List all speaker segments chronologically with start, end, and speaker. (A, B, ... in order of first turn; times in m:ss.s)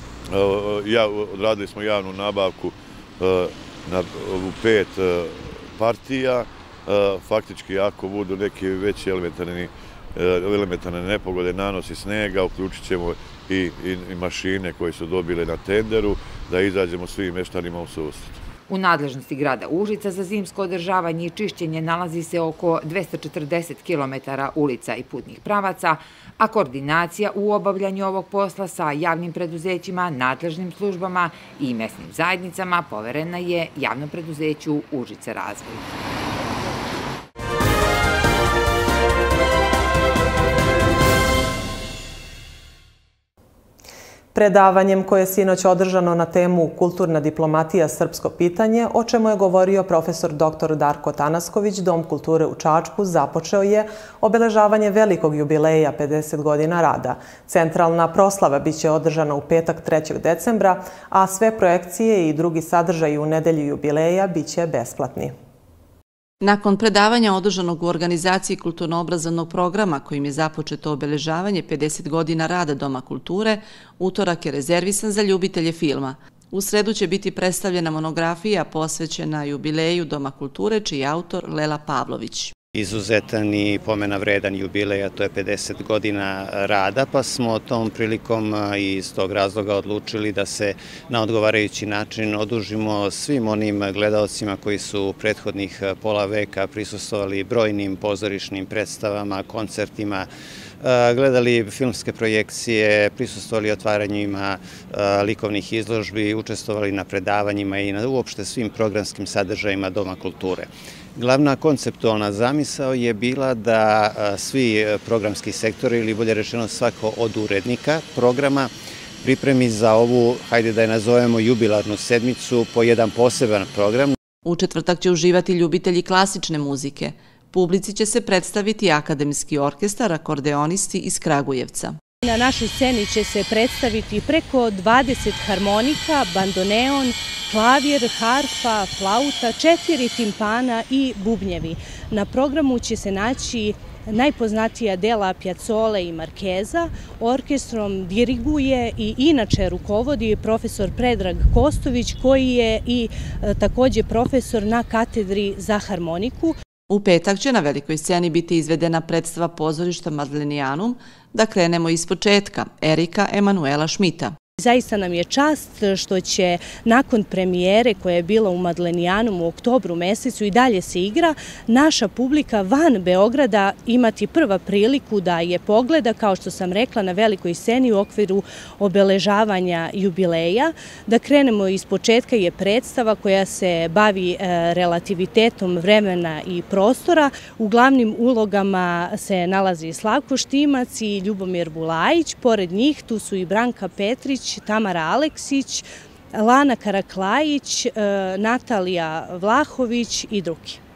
0:00.3-0:18.4 A
0:18.7-0:35.8 B
0:44.3-1:05.3 C
1:06.4-1:22.5 D
1:22.7-1:40.3 E
1:40.8-2:04.2 E
2:04.4-2:12.0 D
2:12.2-2:36.6 F
2:36.9-2:44.3 D
2:44.6-3:20.8 F